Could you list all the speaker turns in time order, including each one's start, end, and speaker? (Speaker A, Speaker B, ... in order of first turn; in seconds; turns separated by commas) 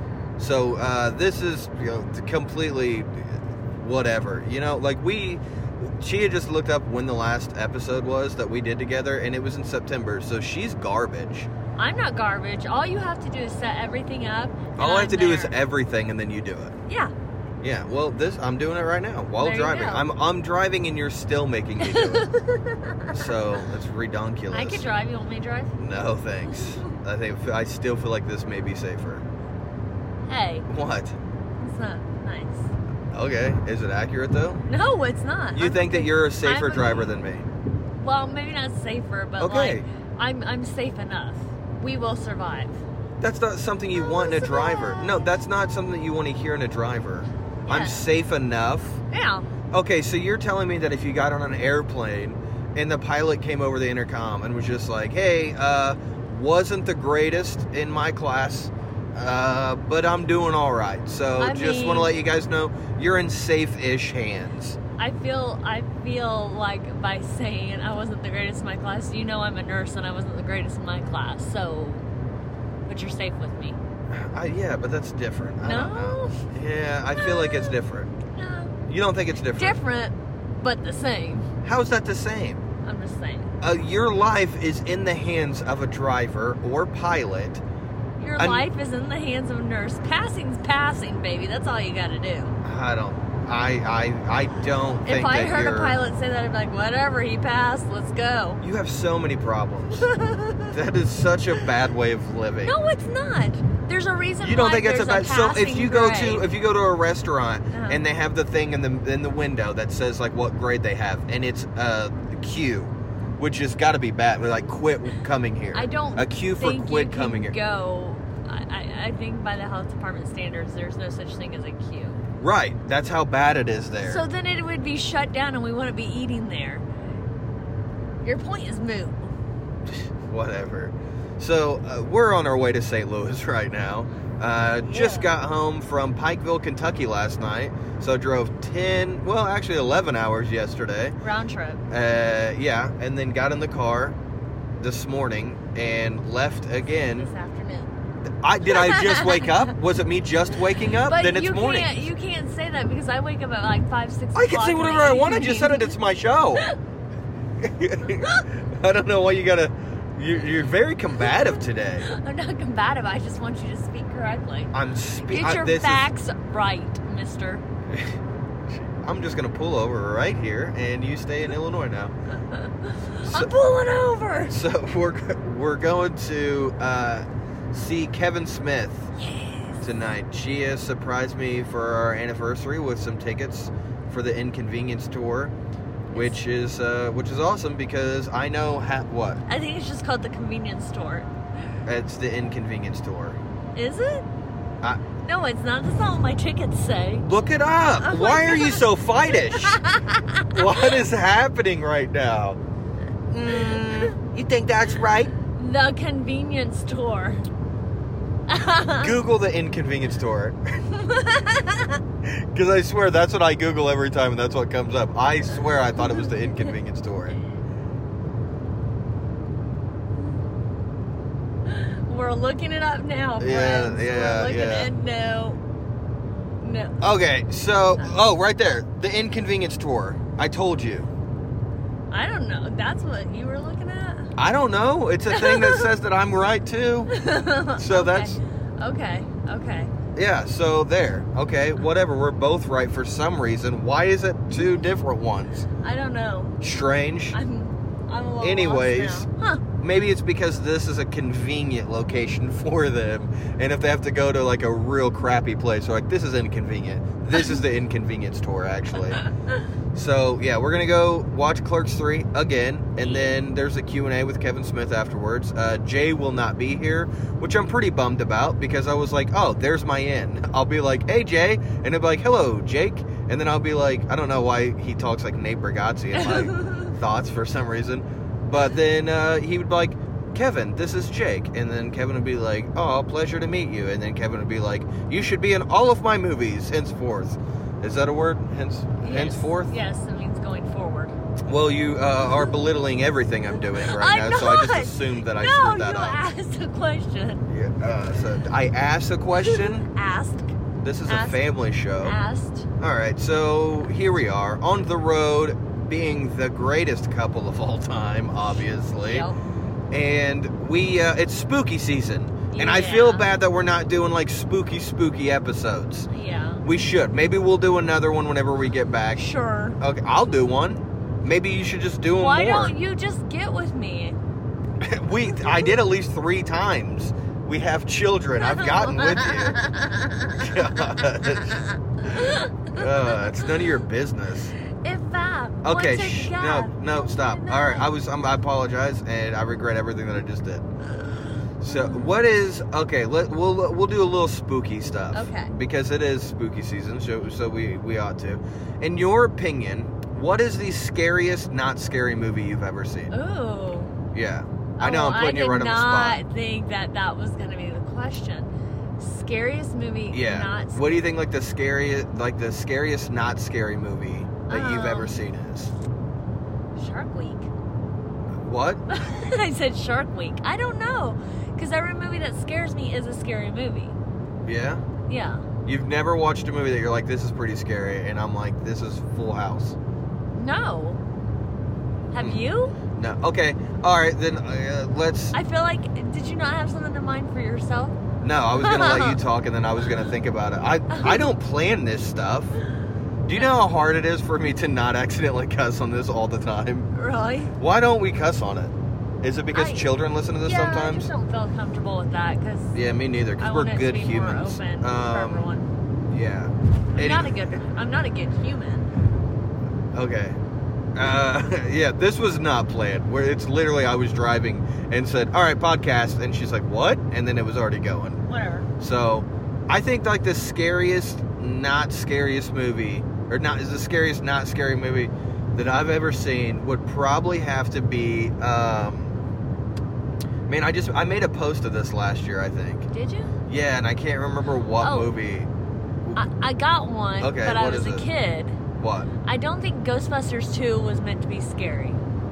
Speaker A: 0.4-11.5, Speaker B: 11.8-15.6, Speaker A: 14.8-16.8, Speaker B: 16.9-17.1, Speaker A: 17.6-22.3, Speaker B: 19.4-20.1, Speaker B: 21.8-23.3, Speaker A: 23.1-24.9, Speaker B: 24.5-25.8, Speaker A: 25.8-29.3, Speaker B: 26.5-26.9, Speaker B: 30.3-30.7, Speaker A: 30.7-31.2, Speaker B: 31.6-32.7, Speaker A: 33.1-34.6, Speaker B: 34.7-37.1, Speaker A: 35.5-37.5, Speaker B: 38.0-42.8, Speaker A: 39.4-39.9, Speaker A: 43.2-49.0, Speaker B: 43.9-45.4, Speaker B: 47.7-48.1, Speaker B: 49.1-49.5, Speaker A: 49.7-64.8, Speaker B: 61.4-62.2, Speaker B: 65.0-72.1, Speaker B: 72.9-73.8, Speaker A: 74.1-78.1, Speaker B: 75.6-76.4, Speaker B: 77.2-77.8, Speaker B: 78.3-78.8, Speaker A: 78.9-79.8, Speaker B: 79.5-81.5, Speaker A: 81.6-82.6, Speaker B: 82.8-83.5, Speaker A: 83.6-87.6, Speaker B: 88.2-92.6, Speaker A: 88.4-88.7, Speaker A: 92.6-96.0, Speaker B: 95.0-98.6, Speaker A: 98.6-100.1, Speaker B: 99.9-100.8, Speaker A: 100.7-102.8, Speaker B: 102.6-106.5, Speaker A: 104.4-117.5, Speaker B: 107.7-108.0, Speaker B: 115.7-122.2, Speaker A: 122.4-124.2, Speaker B: 124.0-126.8, Speaker B: 128.2-129.3, Speaker A: 130.3-141.2, Speaker B: 134.8-135.3, Speaker B: 141.2-141.8, Speaker A: 141.9-144.2, Speaker A: 144.8-147.3, Speaker B: 147.0-147.9, Speaker A: 148.4-152.0, Speaker B: 148.7-149.7, Speaker B: 150.8-155.9, Speaker A: 154.3-156.7, Speaker A: 157.6-162.1, Speaker B: 162.0-164.7, Speaker A: 164.7-166.1, Speaker B: 165.3-167.6, Speaker A: 168.7-172.1, Speaker B: 172.3-174.6, Speaker A: 173.2-173.5, Speaker A: 174.5-179.1, Speaker B: 179.2-179.8, Speaker A: 179.8-185.5, Speaker B: 186.1-186.4, Speaker A: 186.1-189.4, Speaker B: 189.5-191.3, Speaker A: 191.9-193.4, Speaker B: 193.8-194.3, Speaker B: 195.2-197.3, Speaker A: 197.2-199.8, Speaker B: 198.0-201.1, Speaker A: 200.5-202.6, Speaker A: 203.3-205.3, Speaker B: 203.5-204.2, Speaker B: 205.4-207.5, Speaker B: 208.5-209.2, Speaker A: 209.0-210.8, Speaker B: 210.9-212.0, Speaker A: 212.2-217.4, Speaker B: 216.0-216.5, Speaker B: 221.7-225.6, Speaker A: 223.4-224.9, Speaker B: 226.6-227.0, Speaker A: 227.0-231.1, Speaker B: 228.0-228.2, Speaker B: 232.1-234.3, Speaker A: 234.4-237.1, Speaker B: 235.3-235.9, Speaker B: 237.1-239.9, Speaker A: 237.8-238.4, Speaker A: 240.2-245.7, Speaker B: 245.8-246.6, Speaker A: 246.6-247.4, Speaker B: 247.3-249.6, Speaker A: 248.4-249.3, Speaker A: 249.8-259.3, Speaker A: 259.9-289.7, Speaker B: 263.0-263.4, Speaker B: 276.1-276.9, Speaker B: 289.0-291.1, Speaker A: 291.5-296.3, Speaker B: 293.7-297.4, Speaker A: 297.5-299.9, Speaker B: 299.4-300.6, Speaker A: 300.8-302.2, Speaker B: 301.1-302.7, Speaker A: 302.8-309.3, Speaker B: 309.1-309.4, Speaker A: 309.9-316.1, Speaker B: 312.5-313.3, Speaker B: 316.1-316.6, Speaker A: 316.6-319.3, Speaker B: 319.1-319.8, Speaker A: 319.8-322.8, Speaker B: 322.1-324.2, Speaker A: 324.8-329.6, Speaker B: 325.4-325.8, Speaker B: 328.4-330.6, Speaker A: 330.4-334.6, Speaker B: 332.0-333.7, Speaker B: 334.8-337.9, Speaker A: 335.6-340.7, Speaker A: 341.6-353.1, Speaker B: 341.7-342.1, Speaker B: 345.1-345.5, Speaker B: 353.1-353.9, Speaker A: 354.1-356.2, Speaker B: 354.8-360.8, Speaker A: 360.1-365.7, Speaker B: 364.5-365.2, Speaker B: 366.8-367.5, Speaker A: 368.4-368.9, Speaker B: 368.9-374.0, Speaker A: 374.4-374.8, Speaker B: 375.1-375.5, Speaker A: 375.6-379.8, Speaker B: 380.4-381.0, Speaker B: 382.1-382.8, Speaker A: 382.9-385.4, Speaker B: 385.3-388.0, Speaker A: 388.2-392.6, Speaker B: 388.5-389.2, Speaker B: 390.9-391.4, Speaker A: 393.2-396.9, Speaker B: 396.9-397.5, Speaker A: 397.6-401.1, Speaker B: 399.5-399.9, Speaker B: 400.4-402.8, Speaker A: 402.7-405.5, Speaker B: 403.4-405.7, Speaker A: 406.1-407.4, Speaker B: 406.9-408.9, Speaker A: 409.9-410.4, Speaker A: 410.9-418.2, Speaker B: 418.3-418.7, Speaker A: 418.8-429.2, Speaker A: 430.5-432.9, Speaker B: 432.9-433.3, Speaker A: 433.5-435.5, Speaker B: 434.8-435.2, Speaker B: 436.2-438.6, Speaker A: 437.2-438.1, Speaker A: 438.8-439.1, Speaker B: 439.2-442.0